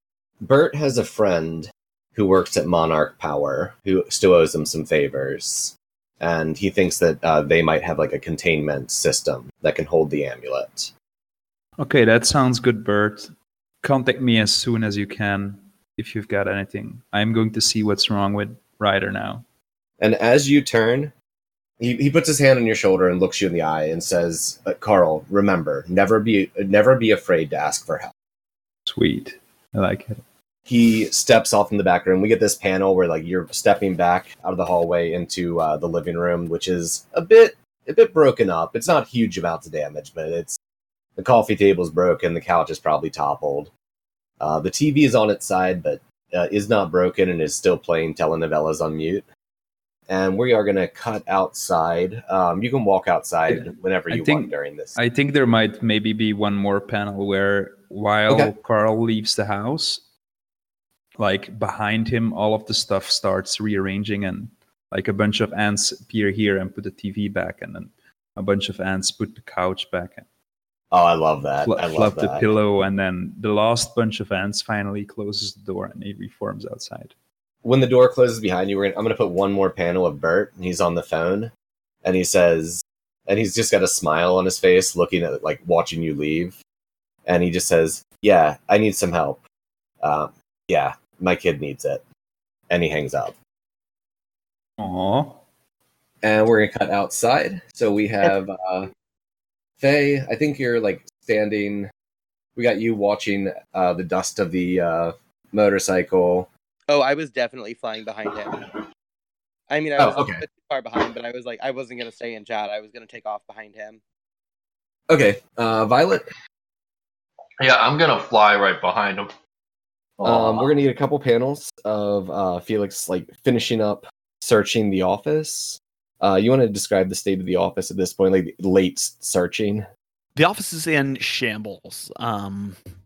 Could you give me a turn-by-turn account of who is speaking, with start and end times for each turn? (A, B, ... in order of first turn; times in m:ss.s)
0:00.4-0:10.9 A
0:11.8-0:19.4 B
0:20.0-0:21.1 A
0:21.8-0:28.1 A
0:28.9-0:30.2 B
0:30.7-0:40.6 A
0:41.2-0:43.7 A
0:44.4-0:49.3 A
0:50.1-0:55.0 A
0:53.5-1:00.0 B
0:58.3-0:58.5 A
1:01.2-1:10.2 B
1:10.9-1:12.5 A
1:11.6-1:17.1 B
1:17.6-1:21.5 A
1:22.0-1:26.6 A
1:27.3-1:29.4 A
1:30.0-1:32.0 A
1:32.7-1:33.4 A
1:34.8-1:35.4 B
1:36.2-1:38.9 A
1:39.8-1:41.9 A
1:42.6-1:46.5 A
1:46.9-1:48.5 C
1:49.7-1:54.0 C
1:50.0-1:50.4 A
1:55.1-1:56.2 A
1:57.6-1:59.3 D
2:00.2-2:00.7 D
2:00.2-2:09.9 A
2:10.4-2:12.8 E